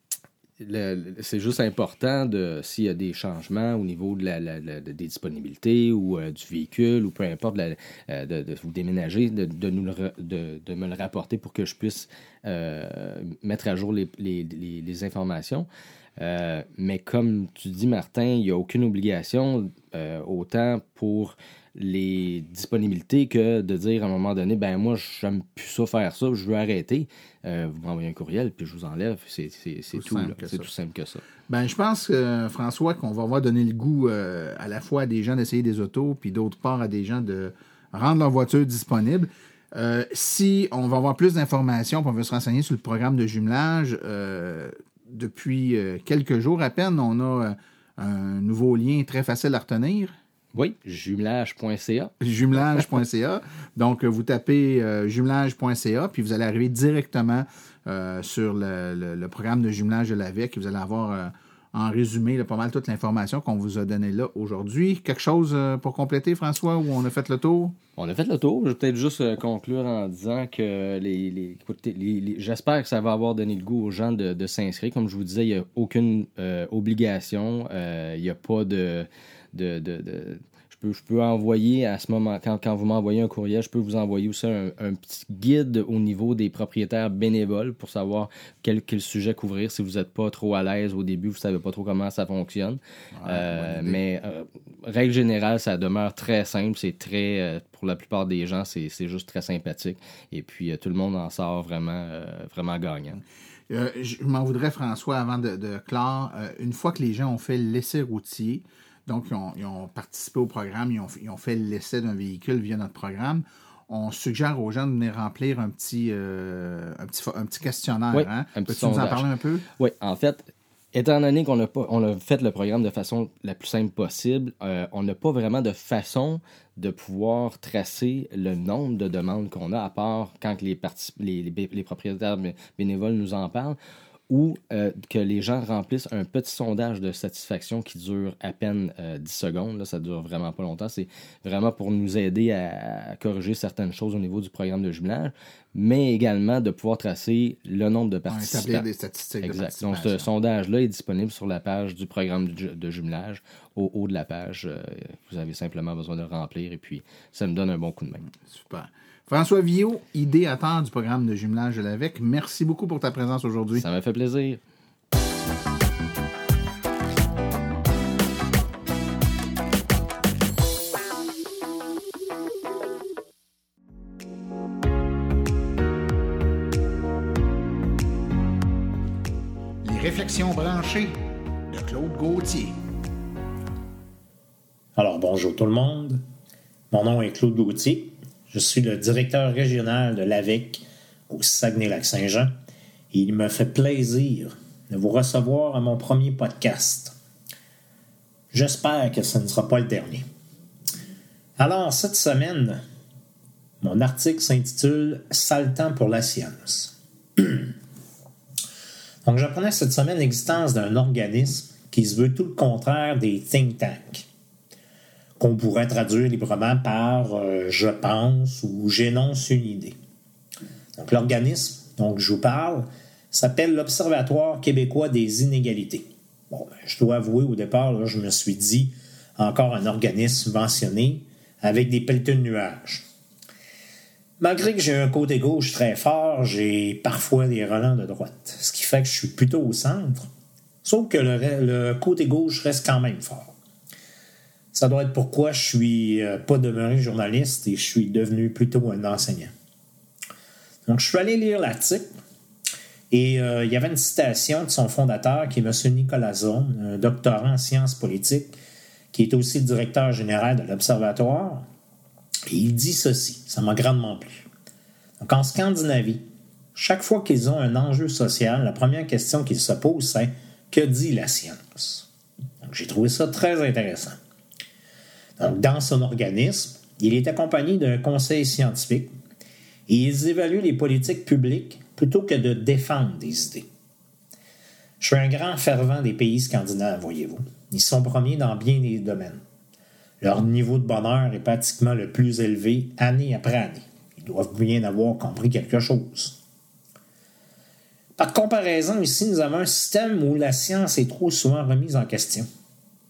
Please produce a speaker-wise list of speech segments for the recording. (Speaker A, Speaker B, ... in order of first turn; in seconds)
Speaker A: 0.6-31.2, 50.5-52.8, 68.0-103.2, 118.1-119.3, 119.8-133.8, 134.3-148.8, 149.4-158.2, 163.7-164.6
Speaker B: 29.9-30.7, 31.5-50.1, 52.2-67.7, 93.1-94.0, 103.7-119.6, 148.3-150.3, 158.4-163.8, 179.8-181.1, 181.7-182.7
Speaker C: 184.9-186.2, 186.9-192.5, 193.1-197.1, 198.5-200.2, 201.6-202.8, 203.8-207.7, 209.2-214.2, 215.4-219.9, 221.0-233.0, 234.4-240.3, 240.8-243.5, 244.7-249.5, 250.8-252.1, 253.1-258.6, 259.1-261.7, 262.5-264.5, 265.2-272.1, 272.6-274.2, 275.4-279.1, 279.9-283.6, 285.0-289.4, 290.2-296.4, 298.2-302.5